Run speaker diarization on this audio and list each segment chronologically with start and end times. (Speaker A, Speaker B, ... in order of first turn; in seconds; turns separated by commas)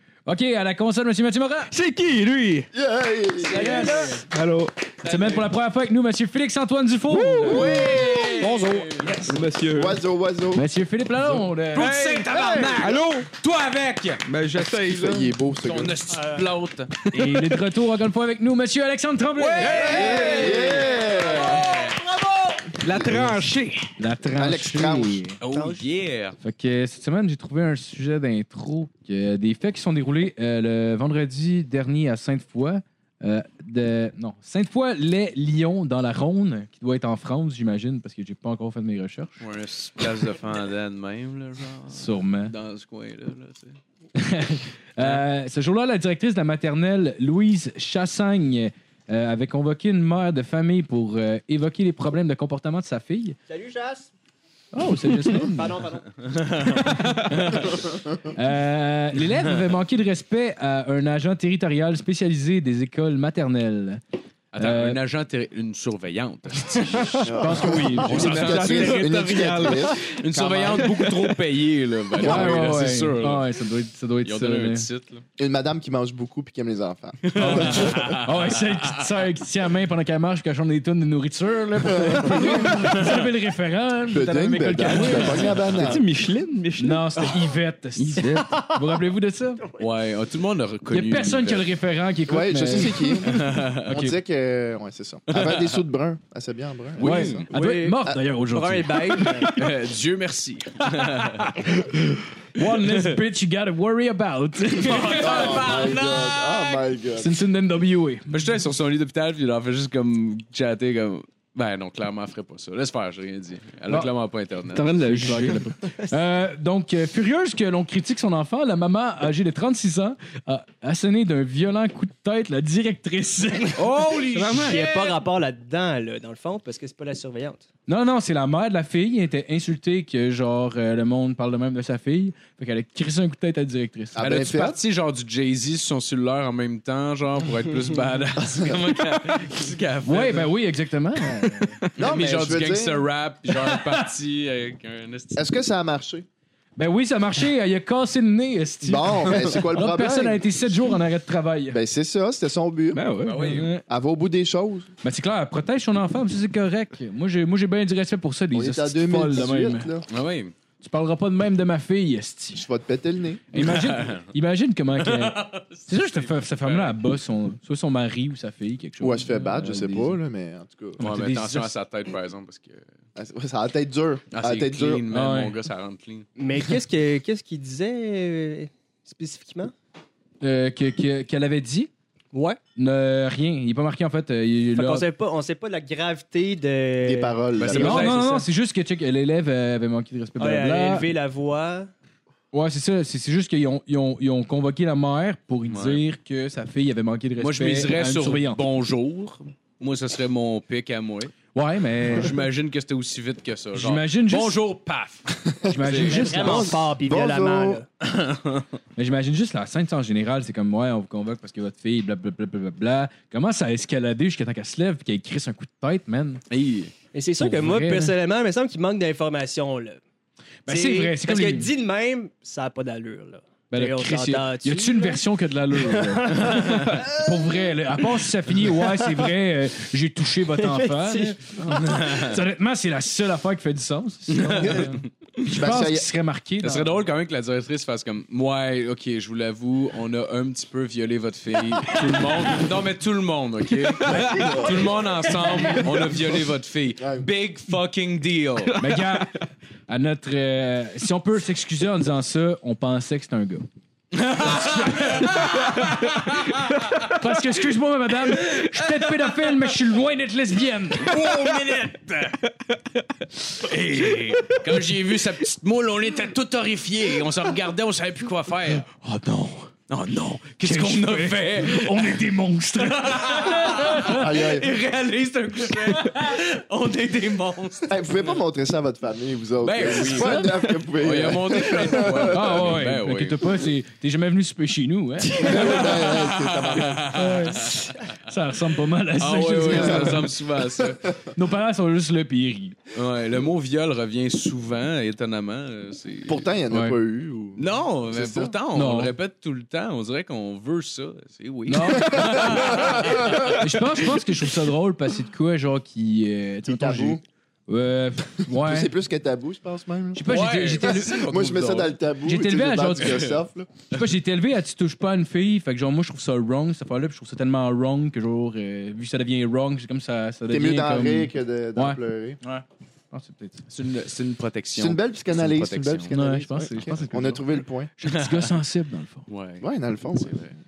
Speaker A: 0.3-1.7, Speaker B: 1.7-2.7, Speaker C: 2.7-3.6, Speaker D: 3.4-4.3, Speaker A: 3.5-4.2, Speaker B: 4.3-4.9, Speaker A: 5.0-9.3, Speaker E: 5.1-5.4, Speaker B: 7.1-8.0, Speaker E: 7.4-9.2, Speaker C: 7.8-8.2, Speaker B: 9.2-10.0, Speaker C: 9.7-10.7, Speaker A: 10.5-12.1, Speaker E: 11.7-14.2, Speaker B: 11.8-13.3, Speaker C: 12.3-13.0, Speaker B: 14.2-15.3, Speaker C: 14.8-16.0, Speaker E: 15.6-17.1, Speaker D: 16.1-16.4, Speaker A: 17.1-19.8, Speaker E: 19.4-23.8, Speaker B: 19.6-20.0, Speaker D: 19.6-22.0, Speaker C: 19.8-21.6, Speaker C: 22.9-23.2, Speaker B: 22.9-23.4, Speaker A: 23.0-23.4, Speaker A: 24.0-25.4, Speaker C: 24.3-25.2, Speaker E: 25.4-26.4, Speaker D: 25.5-25.9, Speaker A: 26.4-39.4, Speaker E: 39.4-43.8, Speaker A: 41.9-42.5, Speaker A: 44.1-53.4, Speaker D: 53.5-54.1, Speaker A: 54.7-55.8, Speaker D: 55.3-56.5, Speaker E: 56.3-57.7, Speaker A: 56.7-57.3, Speaker A: 58.3-64.0, Speaker E: 64.5-73.5, Speaker A: 64.6-65.0, Speaker A: 67.0-68.6, Speaker C: 67.2-71.1, Speaker B: 68.1-70.0, Speaker B: 70.9-71.3, Speaker C: 72.2-72.7, Speaker A: 72.2-74.9, Speaker E: 74.2-75.2, Speaker C: 75.4-78.2, Speaker E: 77.3-79.0, Speaker A: 77.3-85.7, Speaker C: 81.8-83.0, Speaker E: 82.8-83.2, Speaker C: 84.1-86.0, Speaker B: 85.7-88.6, Speaker A: 86.8-89.6, Speaker E: 89.8-91.7, Speaker A: 90.9-94.1, Speaker C: 92.3-97.5, Speaker E: 93.2-93.8, Speaker E: 95.3-95.8, Speaker E: 97.0-97.5, Speaker A: 97.0-99.7, Speaker D: 97.5-99.5, Speaker E: 99.5-101.6, Speaker A: 100.8-105.7, Speaker E: 102.6-103.1, Speaker E: 104.8-106.8, Speaker C: 105.1-107.4, Speaker A: 107.2-108.5, Speaker E: 108.3-114.9, Speaker B: 114.7-115.7, Speaker A: 115.0-123.8, Speaker E: 123.8-125.2, Speaker B: 124.0-124.8, Speaker D: 124.6-127.7, Speaker A: 127.9-134.3, Speaker C: 134.1-134.8, Speaker E: 134.2-140.5, Speaker A: 140.0-141.8, Speaker C: 142.0-143.0, Speaker E: 142.0-145.5, Speaker C: 145.4-146.2, Speaker A: 146.8-151.8, Speaker C: 148.8-151.0, Speaker C: 151.7-153.0, Speaker B: 152.9-153.5, Speaker E: 153.2-153.7, Speaker A: 153.3-153.8, Speaker C: 153.9-154.9, Speaker A: 155.0-159.9, Speaker C: 158.5-160.0, Speaker E: 160.1-160.5, Speaker A: 160.8-162.7, Speaker C: 162.5-163.4, Speaker A: 163.5-170.2, Speaker E: 163.6-164.3, Speaker E: 165.0-167.0, Speaker C: 169.0-171.0, Speaker A: 171.0-171.7, Speaker E: 171.0-172.8, Speaker C: 173.2-175.0, Speaker E: 174.3-176.3, Speaker A: 175.1-175.5, Speaker D: 176.4-179.7, Speaker A: 180.4-181.9, Speaker D: 182.3-182.6, Speaker A: 182.8-185.1, Speaker D: 184.8-188.5, Speaker C: 187.0-188.1, Speaker E: 187.6-188.2, Speaker A: 187.7-191.1, Speaker D: 190.4-191.9, Speaker A: 192.5-198.6, Speaker E: 195.7-196.0, Speaker E: 197.4-201.3, Speaker A: 201.5-202.3, Speaker E: 202.1-205.3, Speaker A: 203.7-204.6, Speaker C: 205.5-207.8, Speaker A: 205.6-206.8, Speaker D: 206.0-207.9, Speaker E: 208.0-208.6, Speaker A: 209.0-216.4, Speaker E: 216.5-216.9, Speaker D: 217.1-220.0, Speaker A: 217.4-218.1, Speaker A: 220.7-221.7, Speaker D: 220.7-225.2, Speaker A: 223.7-237.0, Speaker D: 225.8-227.2, Speaker E: 226.5-227.0, Speaker D: 230.6-231.5, Speaker E: 231.8-232.4, Speaker E: 234.3-235.1, Speaker C: 235.5-236.1, Speaker E: 236.6-248.8, Speaker B: 243.9-244.5, Speaker C: 244.1-244.9, Speaker B: 245.6-245.8, Speaker C: 247.0-247.2, Speaker B: 248.7-249.3, Speaker A: 248.8-249.3, Speaker A: 249.9-253.7, Speaker E: 254.1-257.0, Speaker A: 254.4-256.0, Speaker A: 257.0-261.2, Speaker E: 258.4-259.1, Speaker E: 261.0-262.4, Speaker E: 263.6-268.9, Speaker A: 263.7-264.2, Speaker A: 269.0-269.7, Speaker E: 269.9-272.3, Speaker A: 270.6-274.3, Speaker E: 272.8-278.0, Speaker C: 274.1-274.7, Speaker C: 277.9-282.5, Speaker E: 279.6-283.6, Speaker A: 282.3-286.0, Speaker E: 285.3-288.1, Speaker C: 285.4-287.1, Speaker A: 287.1-290.3, Speaker E: 289.2-291.1, Speaker C: 289.7-291.0, Speaker A: 291.3-292.8, Speaker E: 292.9-296.4, Speaker C: 296.3-298.5, Speaker A: 296.7-297.0, Speaker E: 297.6-303.6, Speaker A: 298.7-299.1, Speaker A: 301.7-308.9, Speaker C: 302.1-303.5, Speaker C: 306.6-307.2, Speaker C: 308.5-313.7, Speaker A: 310.1-311.3, Speaker E: 310.3-311.9, Speaker A: 312.2-313.3, Speaker A: 313.9-323.6, Speaker C: 320.5-322.4, Speaker E: 323.7-326.1, Speaker C: 324.8-327.9, Speaker A: 326.1-329.3, Speaker E: 328.1-328.5, Speaker E: 329.3-330.5, Speaker C: 329.6-330.4